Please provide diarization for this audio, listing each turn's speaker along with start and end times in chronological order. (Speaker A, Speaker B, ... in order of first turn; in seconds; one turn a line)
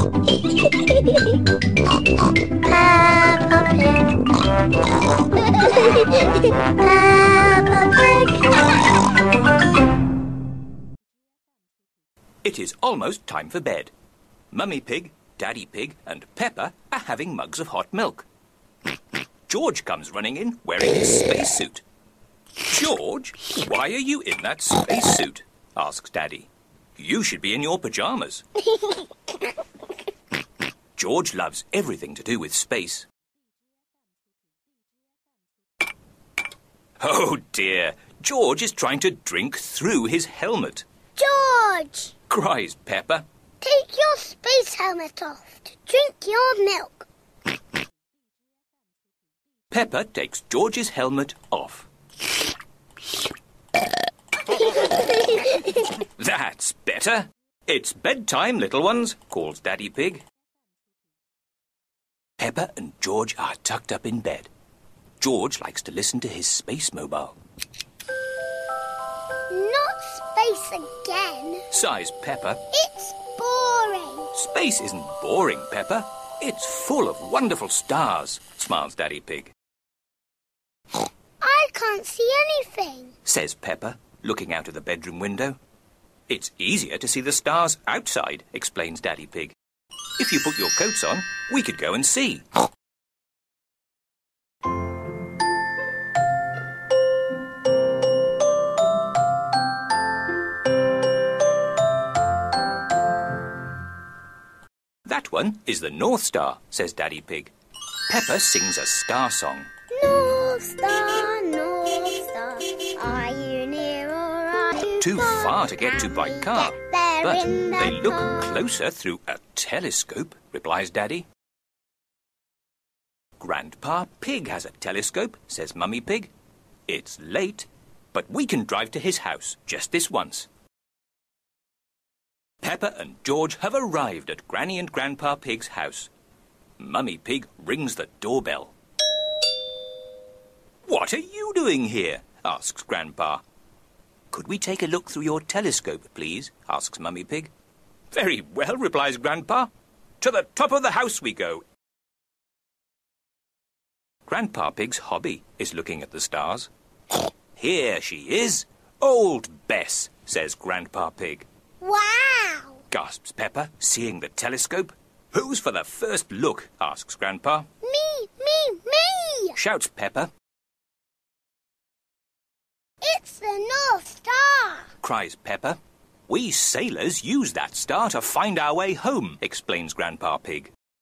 Speaker A: 0.5-1.4
Speaker A: 2.5-4.3
Speaker A: 5.2-8.8
Speaker B: 12.4-13.9
Speaker B: 14.5-18.3
Speaker B: 19.5-21.8
Speaker B: 22.6-28.4
Speaker A: 28.7-29.0
Speaker B: 30.9-33.1
Speaker B: 37.0-40.8
Speaker A: 41.1-42.1
Speaker B: 42.3-43.2
Speaker A: 43.6-47.1
Speaker B: 49.7-51.9
Speaker A: 54.6-55.8
Speaker B: 55.9-60.2
Speaker B: 62.4-64.5
Speaker B: 65.2-67.3
Speaker A: 69.5-71.7
Speaker B: 71.7-72.6
Speaker A: 72.7-74.3
Speaker B: 74.3-79.5
Speaker A: 81.4-83.1
Speaker B: 83.2-85.6
Speaker B: 86.3-89.5
Speaker B: 90.2-92.5
Speaker B: 105.0-107.5
Speaker B: 108.1-109.7
Speaker A: 109.9-118.6
Speaker B: 115.0-121.2
Speaker B: 123.4-126.3
Speaker B: 126.9-130.5
Speaker B: 132.6-136.1
Speaker B: 136.8-138.7
Speaker B: 140.8-143.4
Speaker B: 144.3-147.5
Speaker B: 148.1-149.7
Speaker B: 150.2-151.6
Speaker B: 154.3-156.7
Speaker B: 157.6-161.4
Speaker A: 161.8-162.8
Speaker B: 162.9-167.7
Speaker A: 167.8-169.6
Speaker B: 169.6-170.3
Speaker A: 173.0-174.9
Speaker B: 175.0-180.7